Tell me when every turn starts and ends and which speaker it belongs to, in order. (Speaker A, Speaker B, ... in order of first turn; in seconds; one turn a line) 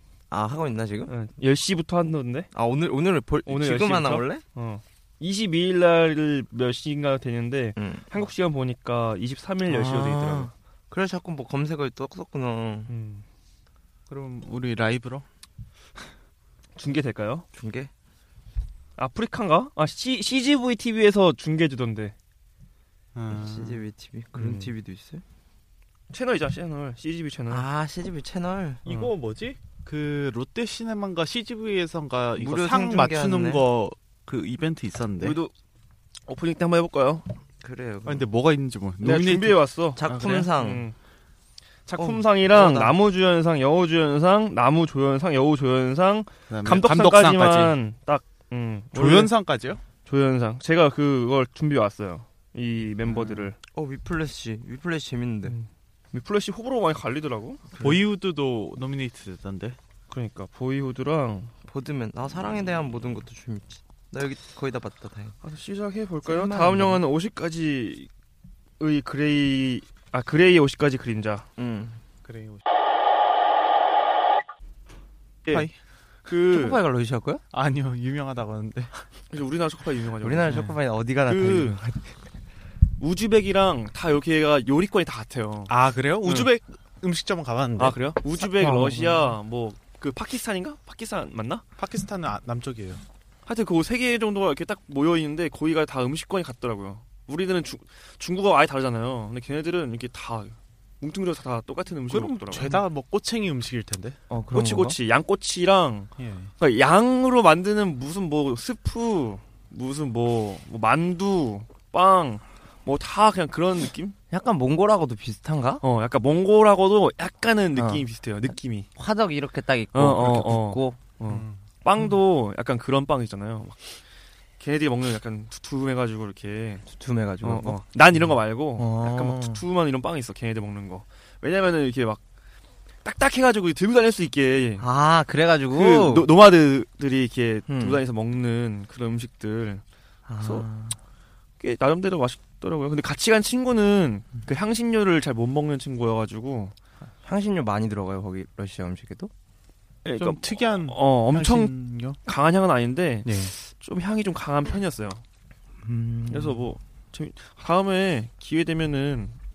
Speaker A: 0.3-1.1
Speaker B: 1.1-2.5
Speaker A: 2.5-4.4
Speaker B: 3.5-10.5
Speaker A: 7.8-8.1
Speaker A: 9.7-12.9
Speaker B: 12.9-13.2
Speaker C: 14.1-15.3
Speaker B: 16.8-17.5
Speaker A: 17.5-17.9
Speaker B: 19.0-22.1
Speaker C: 23.1-23.9
Speaker A: 23.3-25.2
Speaker B: 24.4-24.7
Speaker B: 26.1-27.6
Speaker A: 27.5-28.9
Speaker C: 28.9-35.4
Speaker B: 28.9-29.1
Speaker A: 32.4-33.7
Speaker B: 35.2-35.5
Speaker B: 36.3-37.3
Speaker A: 37.6-38.2
Speaker C: 38.1-40.5
Speaker B: 39.0-41.0
Speaker A: 40.0-40.9
Speaker B: 41.9-49.3
Speaker A: 42.0-43.0
Speaker C: 46.5-47.8
Speaker C: 48.9-49.8
Speaker B: 50.0-53.6
Speaker A: 53.2-55.6
Speaker B: 55.5-57.7
Speaker A: 57.8-58.0
Speaker C: 57.8-59.8
Speaker B: 60.1-61.5
Speaker A: 61.7-65.4
Speaker B: 65.4-68.1
Speaker A: 66.2-67.0
Speaker B: 68.8-71.5
Speaker A: 71.6-72.0
Speaker C: 72.2-72.6
Speaker B: 76.3-76.8
Speaker A: 76.5-77.4
Speaker C: 77.5-78.9
Speaker B: 79.3-81.8
Speaker A: 80.2-82.1
Speaker B: 83.0-86.5
Speaker C: 85.7-88.1
Speaker B: 87.8-91.6
Speaker A: 88.4-89.3
Speaker C: 91.8-93.0
Speaker B: 93.5-102.8
Speaker C: 102.1-104.2
Speaker A: 104.3-105.0
Speaker B: 104.3-114.2
Speaker C: 106.2-106.5
Speaker A: 114.3-115.8
Speaker B: 115.8-118.9
Speaker A: 117.7-118.1
Speaker A: 119.0-121.0
Speaker B: 119.9-123.8
Speaker C: 121.3-121.6
Speaker B: 124.6-126.8
Speaker A: 126.9-127.8
Speaker B: 127.4-132.2
Speaker A: 128.8-129.6
Speaker B: 133.0-134.8
Speaker A: 134.8-136.3
Speaker B: 135.7-139.8
Speaker A: 137.7-138.0
Speaker A: 140.3-141.0
Speaker B: 140.4-140.7
Speaker B: 141.6-146.8
Speaker A: 147.2-149.3
Speaker B: 150.1-151.7
Speaker C: 150.2-152.2
Speaker B: 152.2-155.2
Speaker C: 153.2-153.5
Speaker A: 155.8-156.7
Speaker B: 156.3-159.4